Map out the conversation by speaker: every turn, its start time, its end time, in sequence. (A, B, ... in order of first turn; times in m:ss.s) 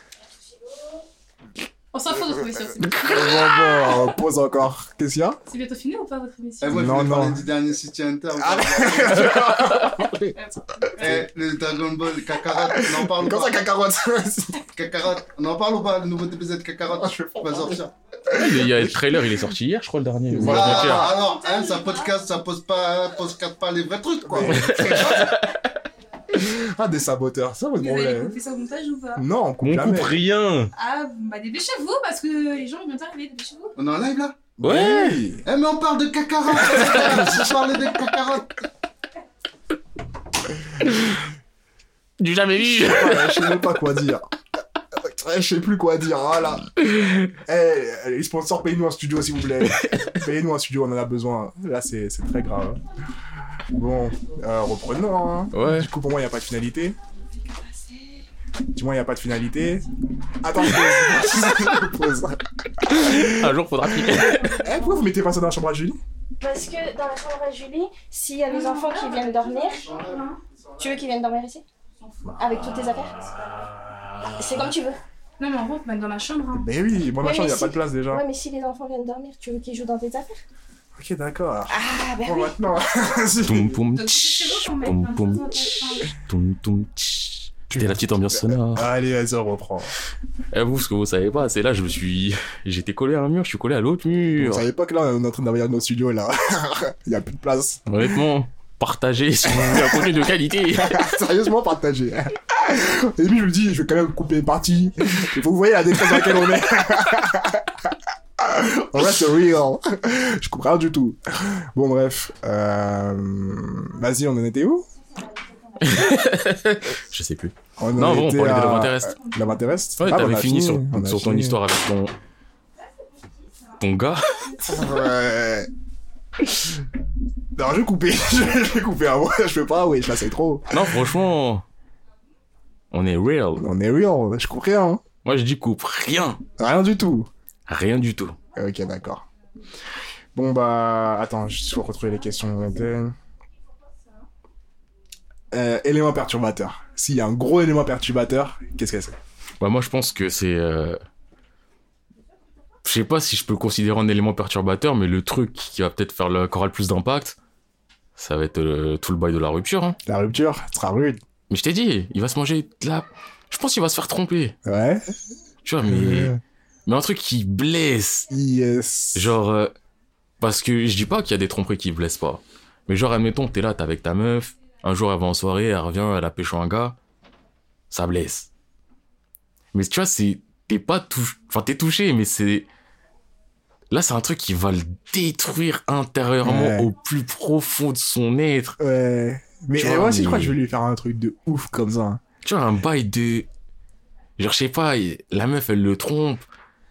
0:01.9-0:04.1 A
0:02.8-0:05.4 B
0:05.5-0:06.8 A
0:06.6-0:09.6 C
0:06.7-0:07.4 B
0:08.4-0:11.3 B
0:09.6-0:10.0 D
0:11.0-0:13.6 C
0:12.7-0:14.6 B
0:14.6-0:17.9 C
0:17.0-0:19.1 B
0:18.3-0:21.1 D
0:20.3-0:21.1 B
0:20.4-0:25.4 C
0:21.0-0:22.1 A
0:24.2-0:25.3 B
0:24.4-0:25.7 D
0:26.3-0:28.4 B
0:27.8-0:29.2 A
0:29.1-0:30.2 B
0:29.6-0:30.7 D
0:30.8-0:33.7 A
0:33.8-0:34.4 C
0:34.6-0:35.4 B
0:34.6-0:35.2 D
0:35.4-0:38.6 C
0:36.8-0:37.5 B
0:40.8-0:41.2 D
0:42.2-0:43.7 D
0:42.6-0:44.2 B
0:45.0-0:46.7 B
0:46.8-0:47.3 D
0:47.4-0:52.8 B
0:49.8-0:50.1 D
0:53.7-0:57.0 B
0:55.5-0:55.9 D
0:57.5-0:58.0 A
0:58.7-0:59.8 B
1:00.4-1:06.0 B
1:02.8-1:04.7 D
1:06.4-1:09.9 E
1:08.6-1:10.4 A
1:10.8-1:11.6 E
1:12.4-1:13.3 E
1:14.4-1:15.0 E
1:15.4-1:16.7 A
1:16.5-1:18.2 B
1:17.2-1:20.4 E
1:21.0-1:23.8 B
1:21.7-1:22.6 E
1:23.4-1:28.9 D
1:24.0-1:26.1 A
1:27.7-1:29.9 B
1:30.5-1:34.6 D
1:34.4-1:38.1 B
1:37.9-1:41.1 D
1:39.4-1:40.2 B
1:40.7-1:54.9 B
1:55.8-1:59.2 D
1:57.8-2:01.6 B
2:00.0-2:02.1 D
2:03.8-2:04.6 D
2:04.6-2:05.7 B
2:07.5-2:10.9 B
2:10.7-2:11.6 D
2:12.9-2:13.7 D
2:13.6-2:15.0 B
2:15.2-2:16.4 D
2:16.6-2:17.3 B
2:17.7-2:18.4 D
2:18.5-2:19.2 B
2:20.3-2:23.2 B
2:25.5-2:29.2 B
2:29.6-2:31.0 D
2:32.8-2:37.4 D
2:38.2-2:40.0 D
2:40.0-2:41.2 B
2:41.5-2:44.6 D
2:44.6-2:45.1 B
2:45.6-2:46.3 D
2:45.8-2:46.4 B
2:46.9-2:48.3 D
2:48.3-2:49.3 B
2:49.1-2:49.7 D
2:50.4-2:57.0 D
2:57.9-2:58.5 D
2:59.7-3:02.7 D
3:03.9-3:08.8 D
3:06.4-3:06.9 B
3:08.8-3:12.2 B
3:09.8-3:10.5 D
3:12.4-3:13.5 D
3:14.4-3:16.4 D